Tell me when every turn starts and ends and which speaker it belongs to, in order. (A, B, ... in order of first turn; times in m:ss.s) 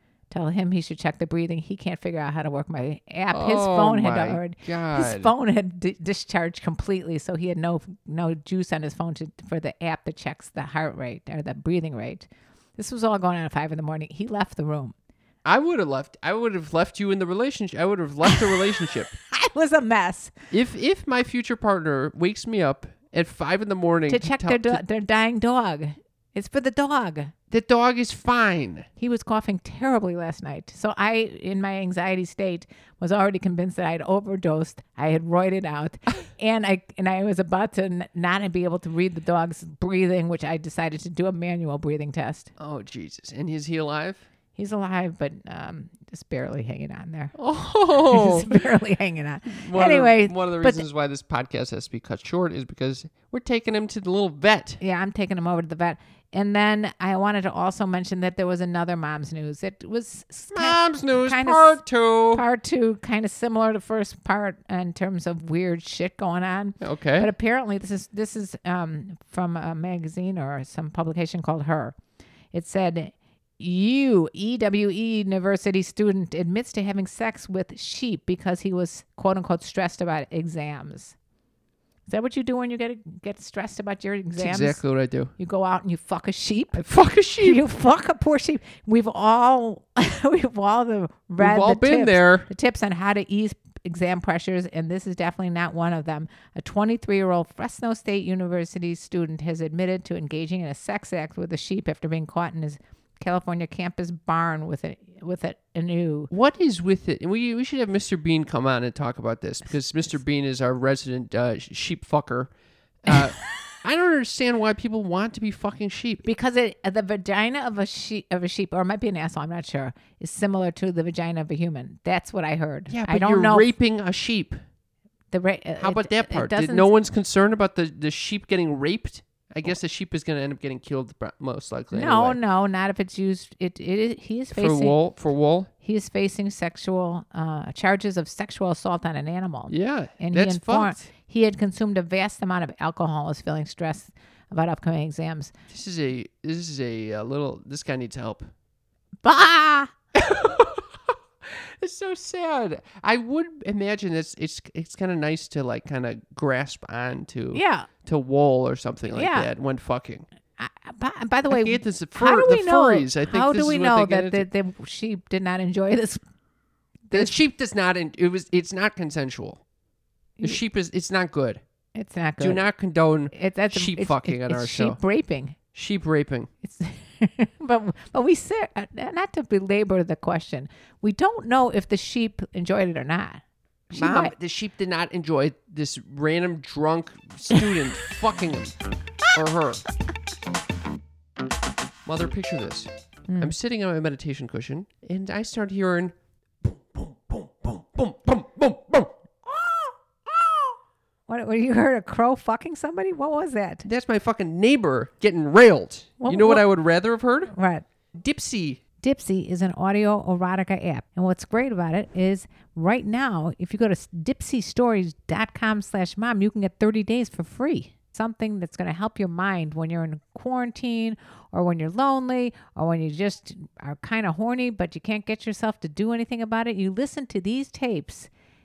0:00.3-0:14.9 A
0:03.3-0:05.3 B
0:15.4-0:19.2 B
0:19.3-0:20.3 A
0:20.5-0:24.8 B
0:24.1-0:27.3 A
0:27.5-0:28.9 B
0:29.0-0:42.5 A
0:42.6-0:44.2 B
0:44.6-0:47.4 A
0:47.4-0:48.6 B
0:48.0-0:50.8 A
0:49.5-0:54.8 B
0:54.8-1:12.0 A
1:00.5-1:02.4 B
1:06.8-1:07.3 B
1:12.5-1:21.2 A
1:22.1-1:24.8 A
1:24.4-1:25.3 B
1:25.4-1:26.8 A
1:26.8-1:27.6 B
1:27.4-1:46.3 A
1:31.4-1:32.5 B
1:46.3-1:52.5 B
1:53.0-1:56.2 B
1:56.2-2:03.7 A
2:02.9-2:04.6 B
2:05.3-2:06.9 A
2:05.8-2:12.4 B
2:11.9-2:15.0 A
2:14.5-2:15.7 B
2:15.8-2:25.5 A
2:19.7-2:21.1 B
2:25.7-2:28.5 B
2:29.2-2:29.9 A
2:30.2-2:40.3 B
2:37.5-2:37.9 A
2:39.1-2:39.5 A
2:40.6-2:46.2 A
2:41.5-2:44.4 B
2:47.1-2:47.4 A
2:47.1-2:49.6 B
2:50.4-2:51.6 B
2:52.0-2:52.7 A
2:52.4-2:55.0 B
2:53.3-2:55.6 A
2:55.7-2:56.5 B
2:56.6-3:04.3 A
3:03.9-3:08.8 B
3:09.3-3:09.8 B
3:12.0-3:20.8 B
3:13.3-3:13.5 A
3:21.3-3:23.9 A
3:23.8-3:27.5 B
3:26.2-3:26.6 A
3:27.5-3:27.8 A
3:28.2-3:28.8 B
3:29.0-3:48.3 A